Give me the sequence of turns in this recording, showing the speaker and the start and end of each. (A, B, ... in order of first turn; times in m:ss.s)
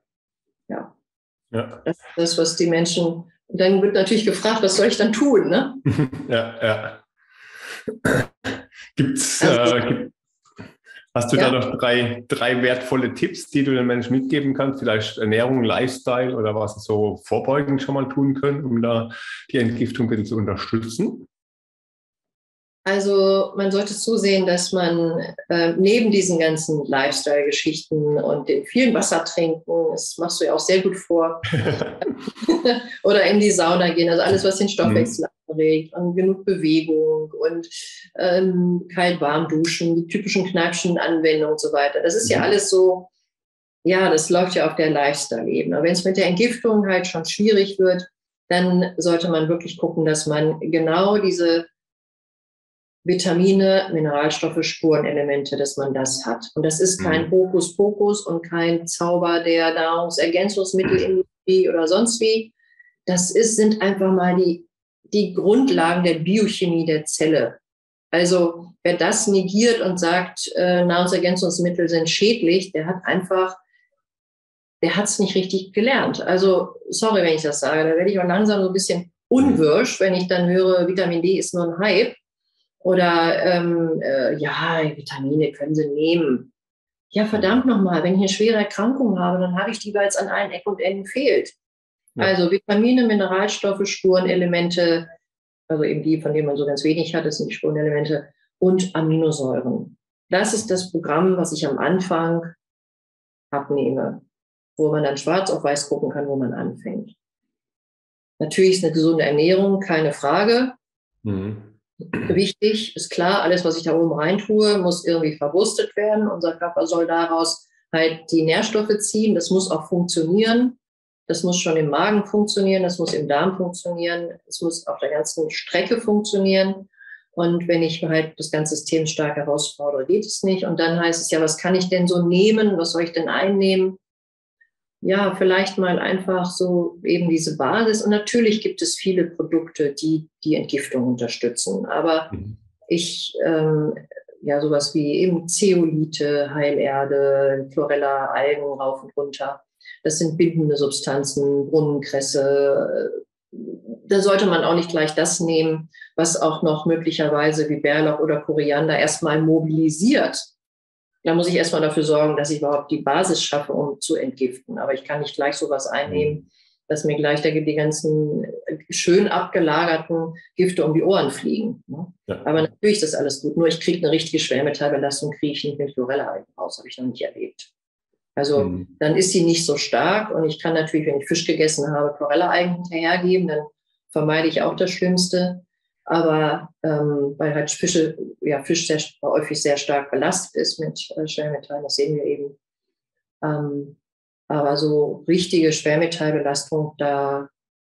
0:01.5-0:01.8 A
0:01.8-0:05.8 B
0:05.9-0:07.0 A
0:09.0-0:10.1 A
0:09.4-0:10.0 B
0:11.1-0:21.3 A
0:22.8-0:43.1 B
0:43.8-0:51.7 B
0:53.0-1:02.5 B
0:57.0-0:57.3 A
1:03.1-1:07.6 B
1:08.1-1:13.6 B
1:14.8-1:22.2 B
1:22.8-1:26.5 B
1:27.1-1:31.6 B
1:32.2-1:35.1 B
1:35.7-1:42.6 B
1:43.5-1:44.2 B
1:44.8-1:47.2 B
1:48.4-1:50.8 B
1:51.2-1:51.7 A
1:52.2-2:14.0 B
2:15.0-2:40.5 B
2:41.2-2:57.7 B
2:58.4-3:12.6 B
3:13.4-3:14.0 B
3:14.5-3:17.5 B